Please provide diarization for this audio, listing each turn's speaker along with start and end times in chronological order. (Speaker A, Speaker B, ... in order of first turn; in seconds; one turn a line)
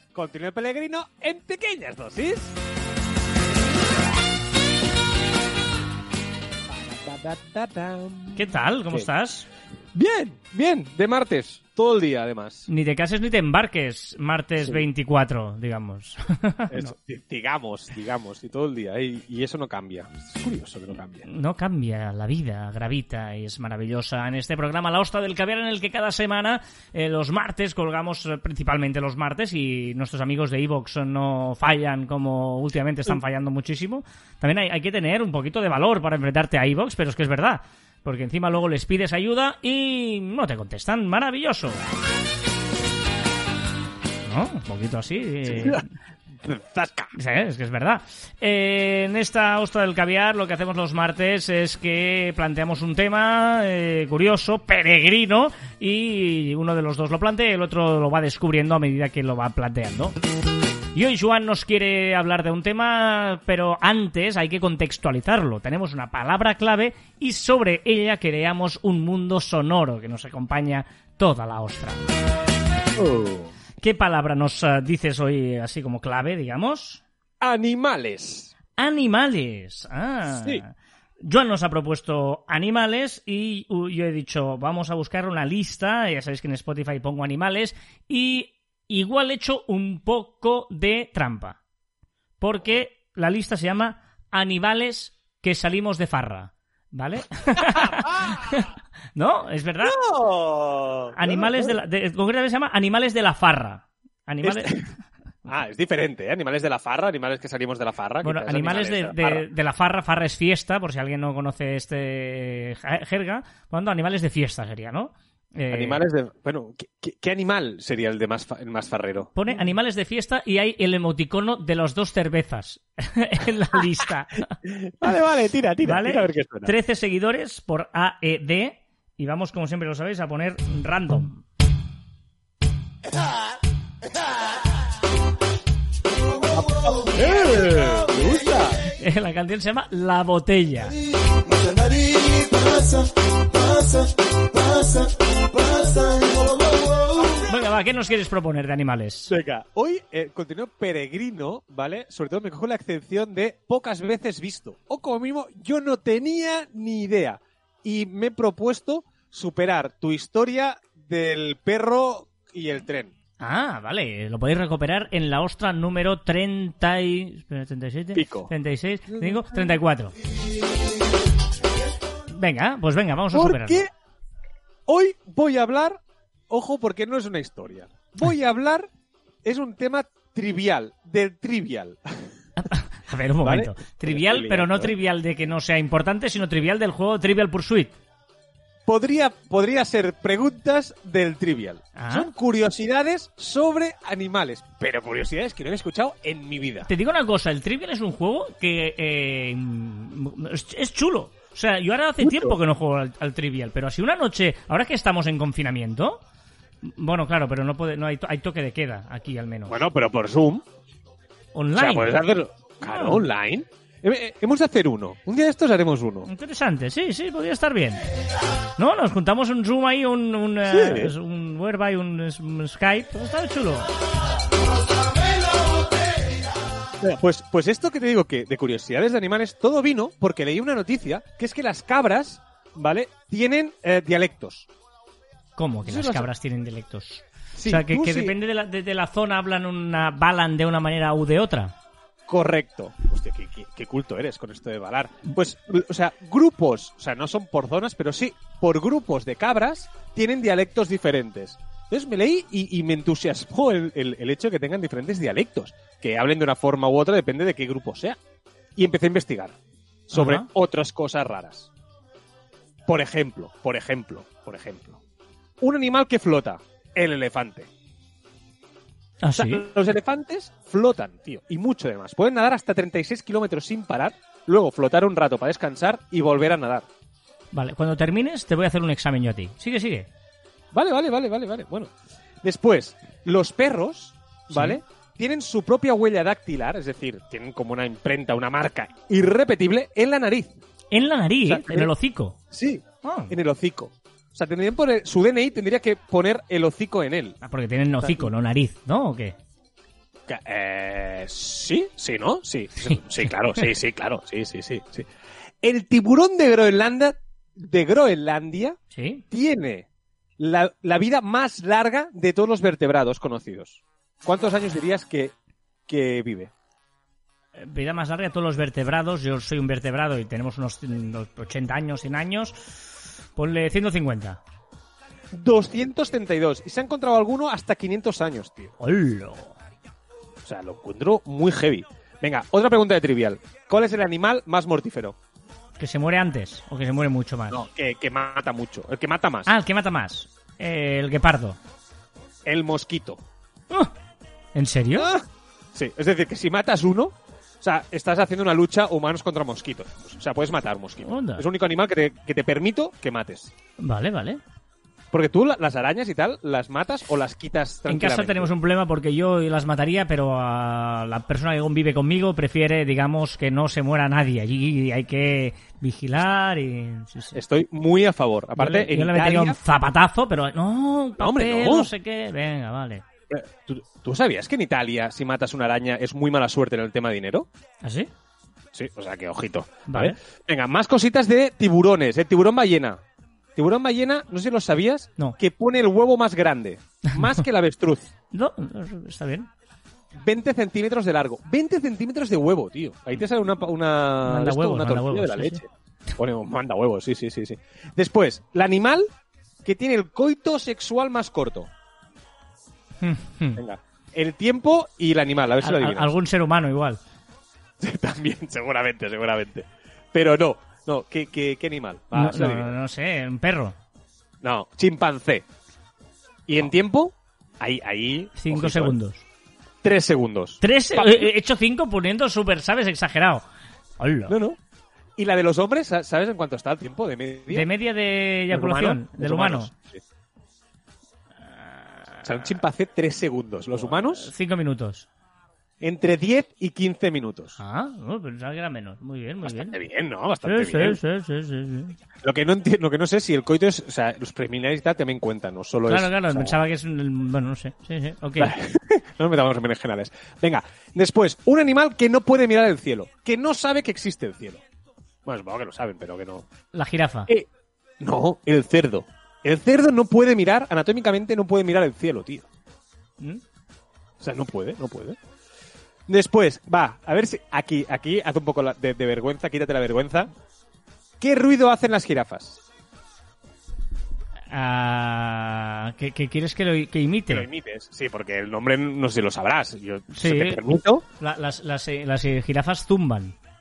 Speaker A: 0.1-2.5
Speaker A: 6.7-9.1
Speaker B: 8.3-9.5
Speaker A: 9.9-12.7
Speaker B: 12.7-16.9
Speaker A: 16.7-21.2
Speaker B: 21.2-41.8
Speaker B: 44.2-45.9
Speaker A: 45.5-45.8
Speaker A: 46.4-47.1
Speaker B: 47.1-60.1
Speaker B: 60.9-72.0
Speaker A: 73.0-73.5
Speaker B: 73.8-77.0
Speaker A: 77.4-78.5
Speaker B: 78.8-80.7
Speaker A: 80.3-80.6
Speaker B: 81.2-91.6
Speaker B: 92.4-100.0
Speaker A: 97.6-98.6
Speaker A: 99.8-101.8
Speaker B: 101.1-104.8
Speaker A: 104.4-104.9
Speaker A: 105.5-109.4
Speaker B: 108.2-116.0
Speaker A: 115.7-119.3
Speaker B: 119.3-124.5
Speaker A: 124.6-126.7
Speaker B: 125.8-131.4
Speaker A: 136.5-138.8
Speaker B: 138.8-141.0
Speaker B: 147.3-149.3
Speaker A: 149.3-163.1
Speaker B: 163.4-170.1
Speaker A: 168.1-168.5
Speaker B: 172.3-173.8
Speaker A: 173.3-173.9
Speaker A: 174.9-178.9
Speaker A: 179.4-182.3
Speaker B: 182.6-187.9
Speaker A: 183.4-184.9
Speaker A: 188.9-196.9
Speaker B: 191.9-192.3
Speaker B: 196.8-206.2
Speaker A: 202.2-202.6
Speaker B: 206.8-209.8
Speaker A: 209.7-210.6
Speaker B: 211.5-212.2
Speaker A: 211.8-216.3
Speaker B: 212.8-213.3
Speaker B: 216.2-218.0
Speaker B: 218.8-223.9
Speaker A: 220.7-221.1
Speaker A: 227.0-234.7
Speaker B: 235.6-241.7
Speaker A: 235.9-236.3
Speaker A: 237.6-238.3
Speaker A: 242.3-258.2
Speaker A: 258.8-259.6
Speaker A: 260.1-261.7
Speaker B: 260.1-260.5
Speaker A: 262.9-265.0
Speaker A: 265.6-267.7
Speaker B: 269.2-269.6
Speaker A: 269.3-276.9
Speaker B: 277.5-280.1
Speaker A: 280.7-281.9
Speaker A: 282.4-290.5
Speaker B: 284.5-284.8
Speaker B: 290.9-292.4
Speaker A: 291.4-291.9
Speaker A: 292.5-297.4
Speaker B: 293.0-293.4
Speaker B: 297.4-299.4
Speaker A: 298.0-298.3
Speaker A: 300.3-305.1
Speaker A: 305.6-308.8
Speaker B: 308.9-309.2
Speaker A: 309.3-309.9
Speaker A: 310.4-315.3
Speaker A: 315.9-316.5
Speaker B: 317.6-324.4
Speaker A: 325.3-328.7
Speaker B: 328.8-329.6
Speaker A: 330.4-335.1
Speaker B: 335.8-337.7
Speaker A: 337.5-339.5
Speaker B: 339.5-341.6
Speaker A: 342.4-343.2
Speaker B: 344.6-345.1
Speaker A: 344.9-345.2
Speaker A: 345.7-353.5
Speaker B: 351.0-351.4
Speaker B: 353.8-354.4
Speaker A: 355.1-358.5
Speaker B: 357.9-367.4
Speaker A: 367.3-369.6
Speaker B: 368.6-373.0
Speaker A: 371.2-371.9
Speaker A: 373.3-377.5
Speaker B: 377.8-378.1
Speaker A: 378.7-383.0
Speaker B: 379.9-380.1
Speaker A: 383.6-388.1
Speaker B: 387.1-387.4
Speaker B: 388.3-389.5
Speaker A: 390.2-395.6
Speaker B: 394.2-395.6
Speaker A: 396.2-399.1
Speaker A: 399.6-401.7
Speaker B: 403.0-403.6
Speaker A: 403.6-406.1
Speaker B: 405.6-407.0
Speaker A: 407.8-412.8
Speaker B: 412.1-413.8
Speaker A: 414.4-415.4
Speaker A: 416.5-419.0
Speaker B: 418.4-419.2
Speaker A: 419.8-421.3
Speaker B: 420.6-423.4
Speaker B: 424.0-424.4
Speaker A: 424.3-424.6
Speaker A: 425.2-427.7
Speaker B: 427.5-429.7
Speaker A: 428.5-430.0
Speaker B: 431.6-432.6
Speaker A: 432.2-434.3
Speaker B: 433.8-435.1
Speaker A: 435.8-437.6
Speaker B: 437.6-439.8
Speaker A: 439.4-441.0
Speaker B: 440.4-441.9
Speaker A: 442.2-446.6
Speaker B: 445.9-448.5
Speaker A: 448.4-454.6
Speaker A: 455.2-456.4
Speaker B: 456.7-457.3
Speaker A: 458.0-462.5
Speaker A: 464.2-465.2
Speaker A: 466.1-470.3
Speaker A: 471.2-472.6
Speaker B: 474.5-477.5
Speaker A: 477.3-481.0
Speaker B: 480.1-483.4